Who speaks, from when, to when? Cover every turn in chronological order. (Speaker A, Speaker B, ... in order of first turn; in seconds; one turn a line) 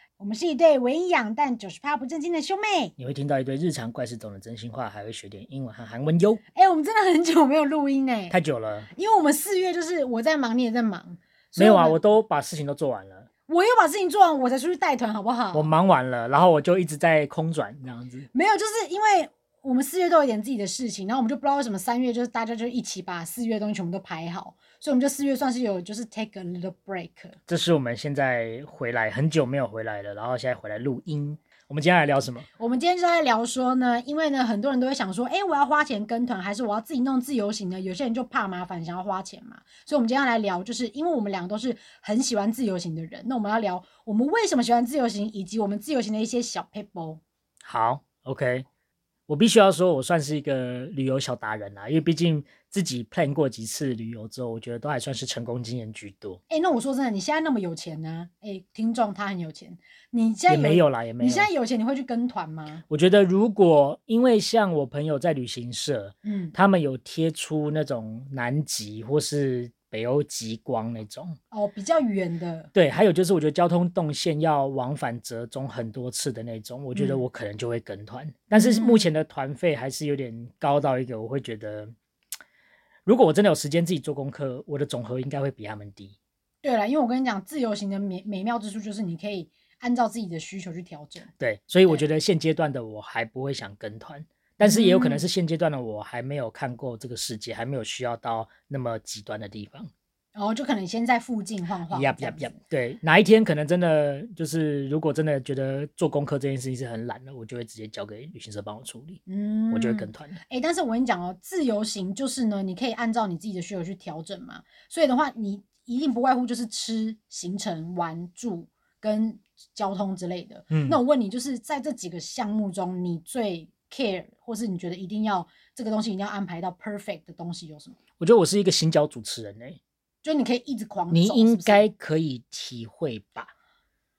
Speaker A: 0.2-2.9
Speaker B: 3.0-6.4
Speaker A: 6.5-8.3
Speaker B: 8.3-8.9
Speaker A: 8.9-12.0
Speaker B: 11.6-13.3
Speaker A: 13.5-15.7
Speaker B: 15.5-18.3
Speaker A: 18.3-27.4
Speaker B: 27.5-32.5
Speaker A: 32.6-47.2
Speaker B: 47.6-48.6
Speaker B: 49.3-56.4
Speaker A: 56.5-62.8
Speaker B: 60.5-61.5
Speaker B: 62.9-71.4
Speaker A: 66.2-66.5
Speaker A: 71.5-72.7
Speaker B: 72.7-81.9
Speaker A: 76.9-77.2
Speaker A: 78.5-79.1
Speaker B: 83.0-86.2
Speaker A: 86.6-91.3
Speaker B: 91.4-99.9
Speaker A: 94.6-95.2
Speaker A: 100.3-102.5
Speaker B: 101.9-109.2
Speaker A: 109.3-128.0
Speaker B: 109.7-110.4
Speaker B: 120.7-121.0
Speaker B: 128.2-129.8
Speaker A: 130.2-131.8
Speaker B: 131.1-133.5